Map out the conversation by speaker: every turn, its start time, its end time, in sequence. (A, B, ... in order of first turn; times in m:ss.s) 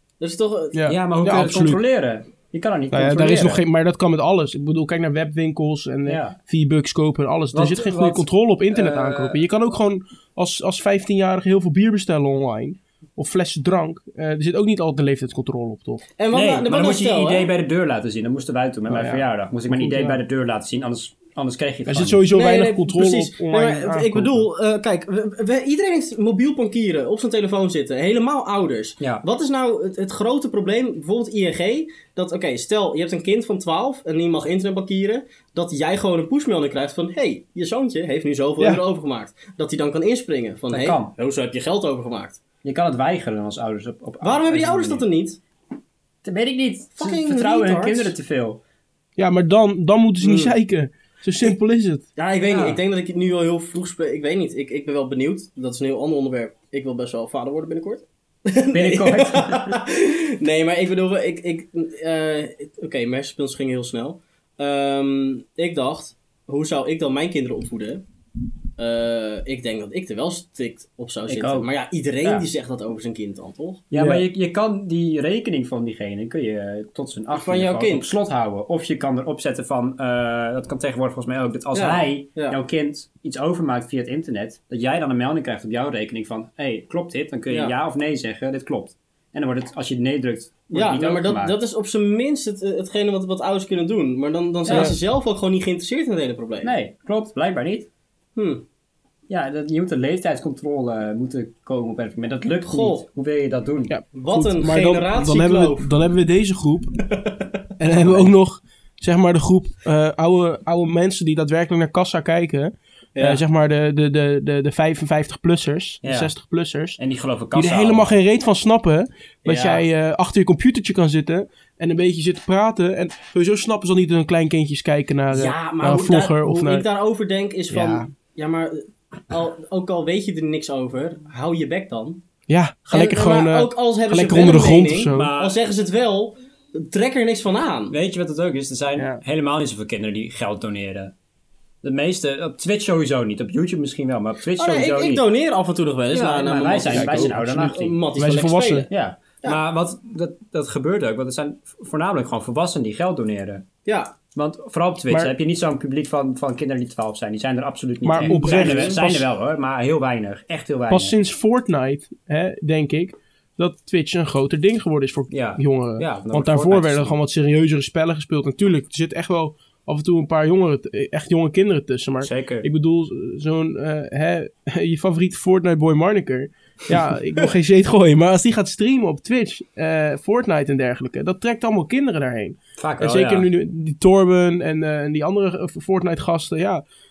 0:00.2-0:00.8 A
0:00.7-0:01.8 B
0:00.9-0:03.6 C
0:02.9-0:16.0 B
0:06.1-0:06.4 C
0:07.5-0:09.5 C
0:16.2-0:17.5 A
0:16.3-0:22.2 C
0:18.9-0:20.2 B
0:21.8-0:24.5 B
0:22.3-0:42.4 A
0:40.7-0:41.1 C
0:42.6-0:45.0 C
0:44.2-0:45.4 A
0:46.2-0:48.6 C
0:47.0-0:48.2 A
0:49.2-0:52.1 B
0:50.2-0:50.6 A
0:52.2-1:08.0 A
0:52.4-0:52.8 C
0:58.7-0:59.8 C
1:08.8-1:13.8 A
1:11.3-1:11.7 C
1:13.9-1:31.6 C
1:13.9-1:14.2 B
1:17.3-1:18.1 A
1:21.7-1:22.6 A
1:27.5-1:27.7 A
1:30.7-1:36.7 A
1:34.6-1:35.0 C
1:34.7-1:35.0 B
1:36.6-1:37.9 C
1:38.4-1:38.6 A
1:39.3-1:43.9 C
1:42.7-1:43.0 A
1:43.9-1:47.0 B
1:44.1-1:45.9 A
1:47.2-1:47.5 A
1:47.8-1:57.0 B
1:48.0-1:48.3 C
1:53.2-1:53.4 A
1:56.0-1:56.3 C
1:57.0-1:58.2 C
1:57.5-2:06.9 B
1:59.4-1:59.8 A
2:05.3-2:12.2 A
2:07.7-2:08.1 B
2:07.7-2:08.0 C
2:12.5-2:15.3 B
2:12.9-2:18.0 A
2:15.1-2:15.6 C
2:17.9-2:21.1 C
2:19.0-2:19.2 B
2:21.8-2:25.3 C
2:24.6-2:28.9 A
2:26.1-2:28.0 C
2:26.9-2:28.9 B
2:28.9-2:33.6 C
2:33.8-2:34.1 A
2:34.3-2:41.2 C
2:35.1-2:35.4 B
2:38.0-2:39.3 B
2:38.2-2:39.0 A
2:40.9-3:06.8 B
2:45.3-2:47.2 C
2:52.2-2:52.7 C
3:02.8-3:03.5 C